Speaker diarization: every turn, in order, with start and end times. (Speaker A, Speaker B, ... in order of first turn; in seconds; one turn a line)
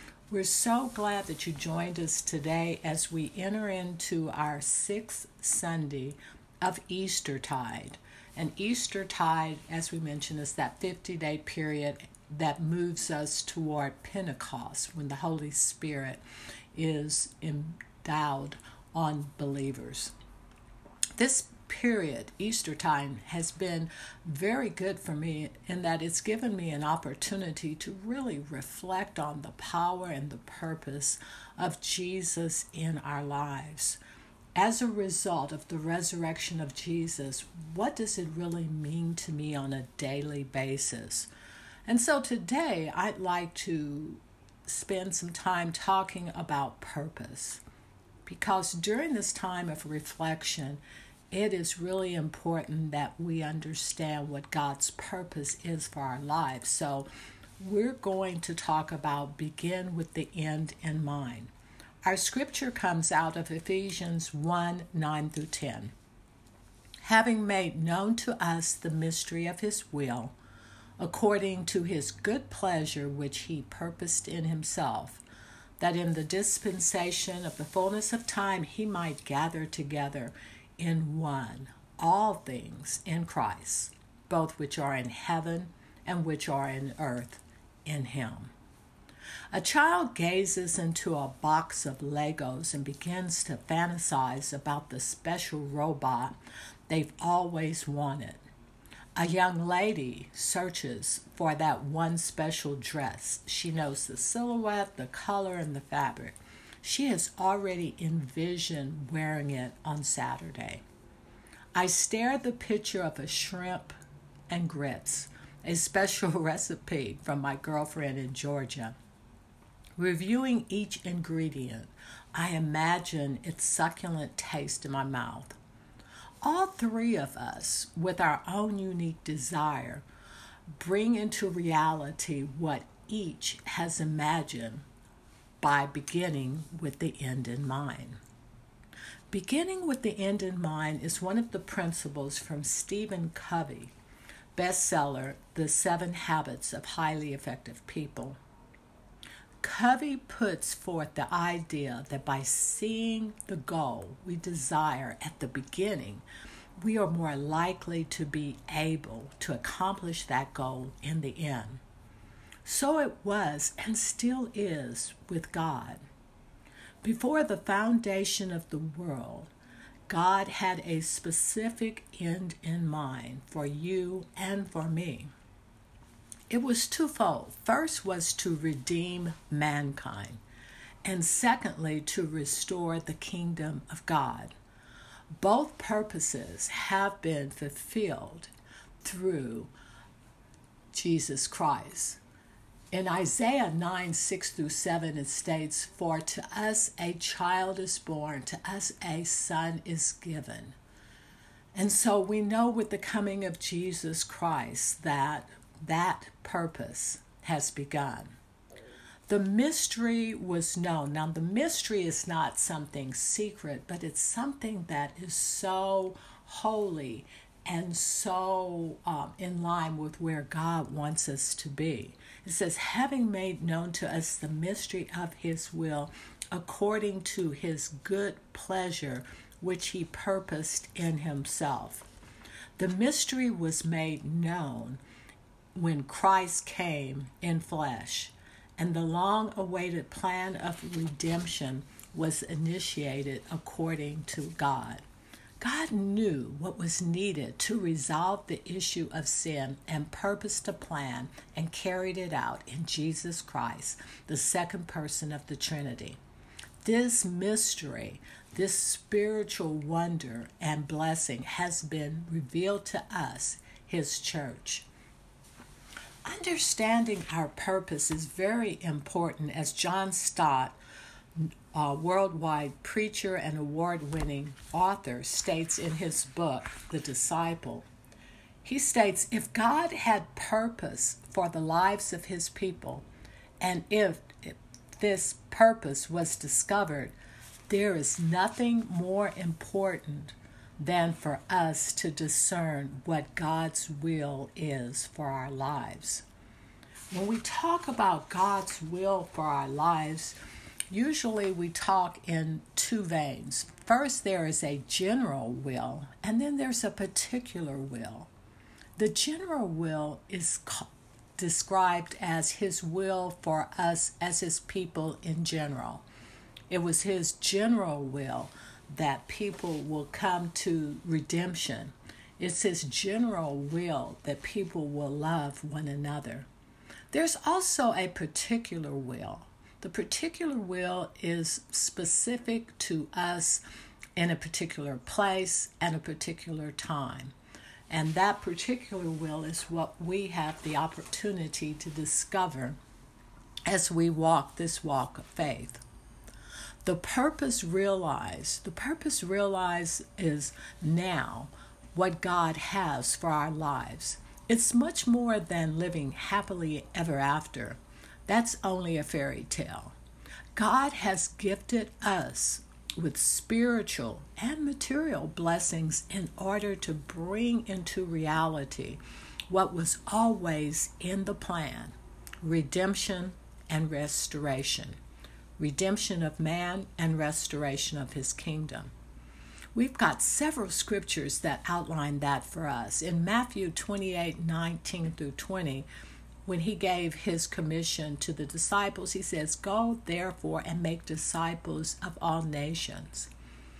Speaker A: 0.3-16.2
Speaker A: 16.7-20.1
Speaker A: 21.2-34.0
Speaker A: 34.5-41.3
Speaker A: 41.9-47.6
Speaker A: 48.2-57.1
Speaker A: 57.6-61.5
Speaker A: 62.0-65.9
Speaker A: 67.0-70.3
Speaker A: 71.0-75.2
Speaker A: 75.8-88.5
Speaker A: 89.5-96.4
Speaker A: 96.9-98.4
Speaker A: 99.2-110.8
Speaker A: 111.7-113.9
Speaker A: 114.5-118.9
Speaker A: 120.0-125.5
Speaker A: 126.4-130.0
Speaker A: 130.8-134.8
Speaker A: 135.6-138.2
Speaker A: 139.3-143.9
Speaker A: 144.5-148.4
Speaker A: 149.6-156.2
Speaker A: 156.8-161.8
Speaker A: 162.6-166.0
Speaker A: 167.0-169.5
Speaker A: 170.1-175.3
Speaker A: 176.5-180.4
Speaker A: 181.0-184.5
Speaker A: 185.4-189.7
Speaker A: 190.9-192.2
Speaker A: 192.9-200.7
Speaker A: 201.7-208.3
Speaker A: 209.3-232.1
Speaker A: 232.8-235.0
Speaker A: 235.7-245.0
Speaker A: 245.6-256.2
Speaker A: 256.8-264.9
Speaker A: 266.2-270.8
Speaker A: 271.4-277.9
Speaker A: 278.6-283.0
Speaker A: 283.6-287.1
Speaker A: 287.7-296.2
Speaker A: 297.1-300.4
Speaker A: 300.9-308.3
Speaker A: 309.0-316.0
Speaker A: 316.7-326.5
Speaker A: 327.1-333.6
Speaker A: 334.2-337.3
Speaker A: 337.9-342.8
Speaker A: 343.6-345.8
Speaker A: 346.8-359.9
Speaker A: 360.6-375.0
Speaker A: 375.6-378.9
Speaker A: 379.7-385.9
Speaker A: 386.4-393.3